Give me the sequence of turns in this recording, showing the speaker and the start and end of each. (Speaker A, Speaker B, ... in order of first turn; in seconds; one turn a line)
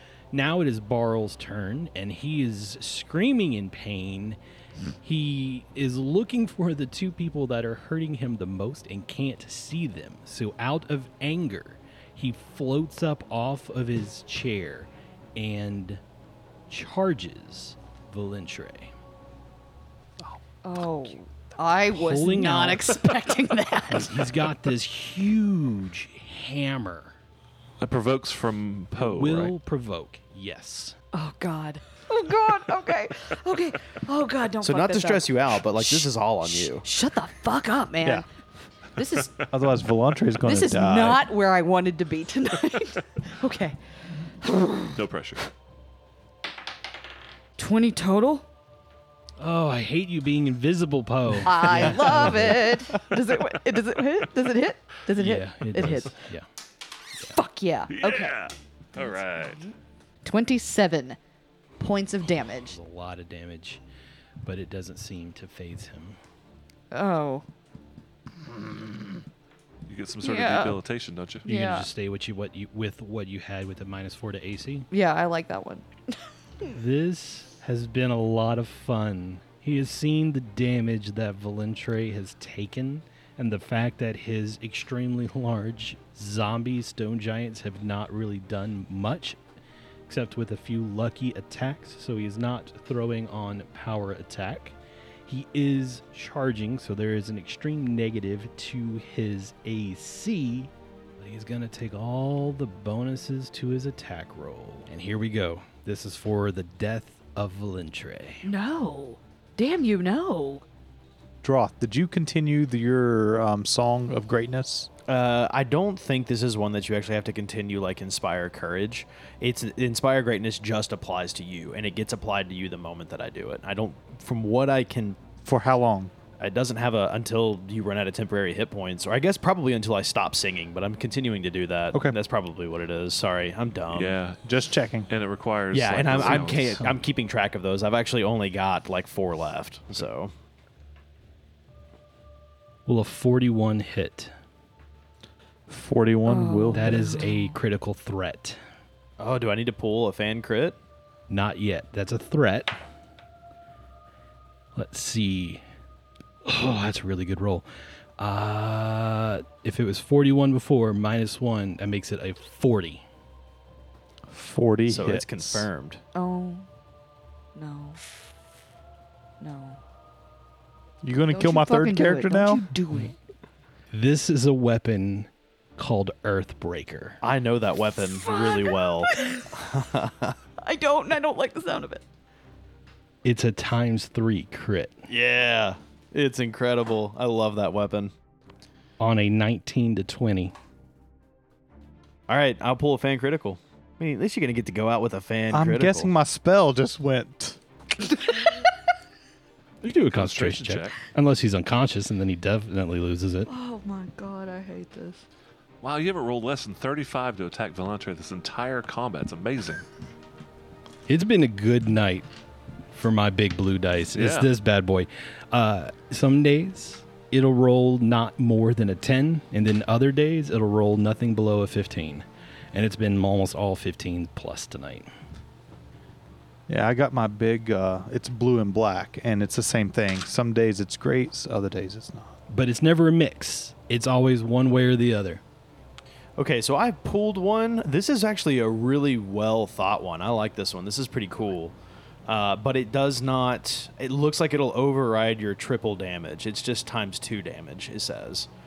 Speaker A: 0.3-4.4
Speaker A: 5.0-16.0
Speaker A: 16.7-18.9
Speaker B: 20.6-24.2
Speaker A: 21.9-22.9
Speaker A: 23.9-27.1
Speaker C: 27.8-29.5
Speaker A: 28.9-30.9
Speaker B: 31.1-38.2
Speaker D: 34.6-36.9
Speaker B: 39.0-39.5
Speaker E: 39.5-41.3
Speaker B: 40.4-43.8
Speaker B: 44.4-45.0
Speaker C: 44.9-45.5
Speaker B: 47.6-48.5
Speaker A: 49.4-52.8
Speaker B: 51.4-56.1
Speaker A: 55.2-56.5
Speaker B: 57.3-58.4
Speaker C: 57.9-59.6
Speaker B: 60.2-61.2
Speaker B: 61.8-62.8
Speaker A: 62.6-63.8
Speaker A: 64.4-66.2
Speaker B: 66.9-67.4
Speaker C: 69.9-71.5
Speaker B: 70.2-70.8
Speaker B: 71.5-71.9
Speaker A: 71.5-74.9
Speaker B: 74.9-76.7
Speaker A: 76.7-89.4
Speaker A: 90.1-108.4
Speaker B: 108.4-110.6
Speaker E: 111.4-114.9
Speaker D: 115.1-125.2
Speaker E: 125.4-126.1
Speaker D: 126.4-134.2
Speaker C: 133.9-134.4
Speaker E: 134.4-135.1
Speaker C: 135.1-136.8
Speaker D: 135.7-140.3
Speaker A: 136.2-137.0
Speaker A: 142.8-144.3
Speaker E: 145.7-147.1
Speaker B: 146.2-147.5
Speaker A: 146.7-148.6
Speaker D: 149.2-150.8
Speaker A: 151.3-152.8
Speaker A: 154.8-155.6
Speaker A: 156.4-157.7
Speaker A: 158.2-163.0
Speaker E: 164.3-165.7
Speaker D: 164.9-166.0
Speaker B: 166.1-166.6
Speaker B: 167.5-168.0
Speaker B: 169.4-169.8
Speaker E: 171.0-172.7
Speaker B: 171.3-173.1
Speaker A: 173.9-177.2
Speaker D: 177.2-180.3
Speaker B: 178.2-179.5
Speaker B: 180.6-182.0
Speaker A: 183.2-184.9
Speaker D: 185.1-188.1
Speaker A: 189.0-190.5
Speaker D: 192.3-196.1
Speaker E: 195.5-197.6
Speaker B: 198.2-198.7
Speaker A: 199.8-203.5
Speaker C: 200.1-201.0
Speaker B: 203.4-205.2
Speaker C: 205.8-209.8
Speaker A: 211.1-212.3
Speaker A: 212.9-225.1
Speaker C: 214.1-214.5
Speaker E: 226.7-232.3
Speaker A: 232.5-235.4
Speaker D: 236.4-241.7
Speaker D: 242.3-248.5